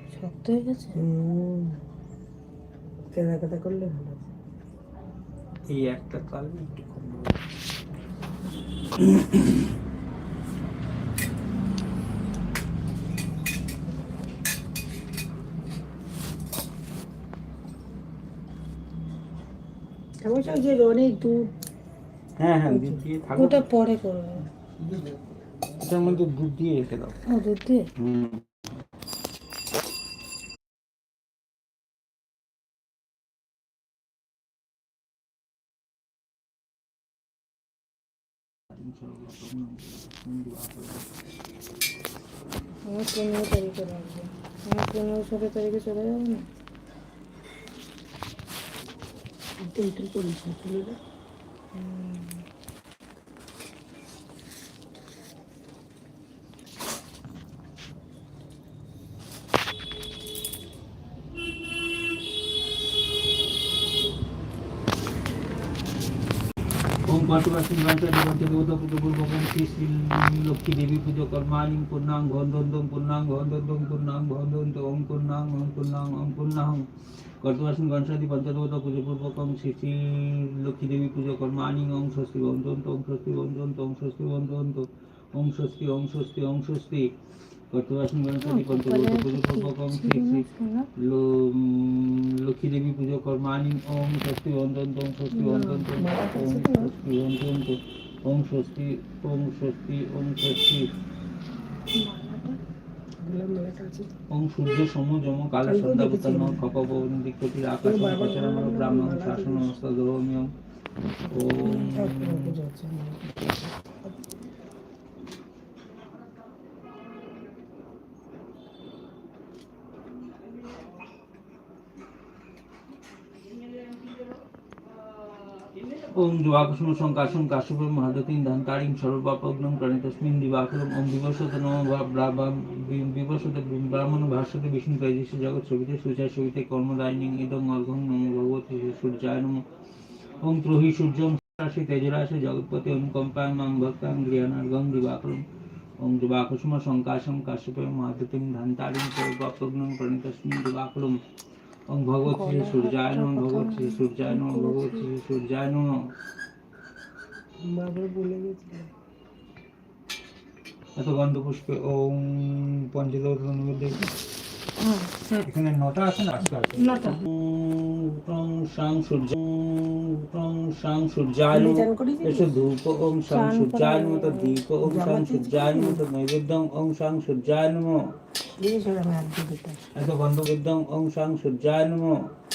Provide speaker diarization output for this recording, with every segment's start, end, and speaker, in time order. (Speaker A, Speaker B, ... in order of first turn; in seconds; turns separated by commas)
Speaker A: 0.1-1.0, Speaker B: 0.9-1.8, Speaker B: 3.1-4.3, Speaker C: 5.7-7.4, Speaker C: 9.0-9.7, Speaker B: 20.2-21.5, Speaker C: 22.4-23.7, Speaker B: 22.7-23.0, Speaker A: 23.3-24.5, Speaker C: 25.7-27.2, Speaker A: 27.3-27.9, Speaker C: 28.0-28.4, Speaker C: 38.7-41.1, Speaker A: 42.8-46.5, Speaker B: 49.6-51.0, Speaker A: 51.7-52.4, Speaker C: 67.0-76.8, Speaker C: 77.4-87.1, Speaker C: 87.7-100.9, Speaker A: 88.4-90.9, Speaker A: 95.3-95.8, Speaker B: 95.8-96.9, Speaker A: 101.9-102.6, Speaker B: 103.2-104.1, Speaker C: 104.3-110.5, Speaker B: 105.6-106.6, Speaker B: 107.8-109.8, Speaker C: 111.3-112.5, Speaker B: 111.6-113.5, Speaker C: 126.1-139.6, Speaker C: 140.4-145.4, Speaker C: 146.0-151.2, Speaker C: 151.9-155.9, Speaker A: 152.2-155.1, Speaker B: 157.7-158.9, Speaker C: 160.9-164.0, Speaker A: 164.8-165.4, Speaker C: 165.4-178.0, Speaker A: 166.8-167.2, Speaker B: 171.5-172.6, Speaker A: 173.3-174.6, Speaker B: 174.8-176.0, Speaker B: 178.6-179.8, Speaker C: 179.9-182.1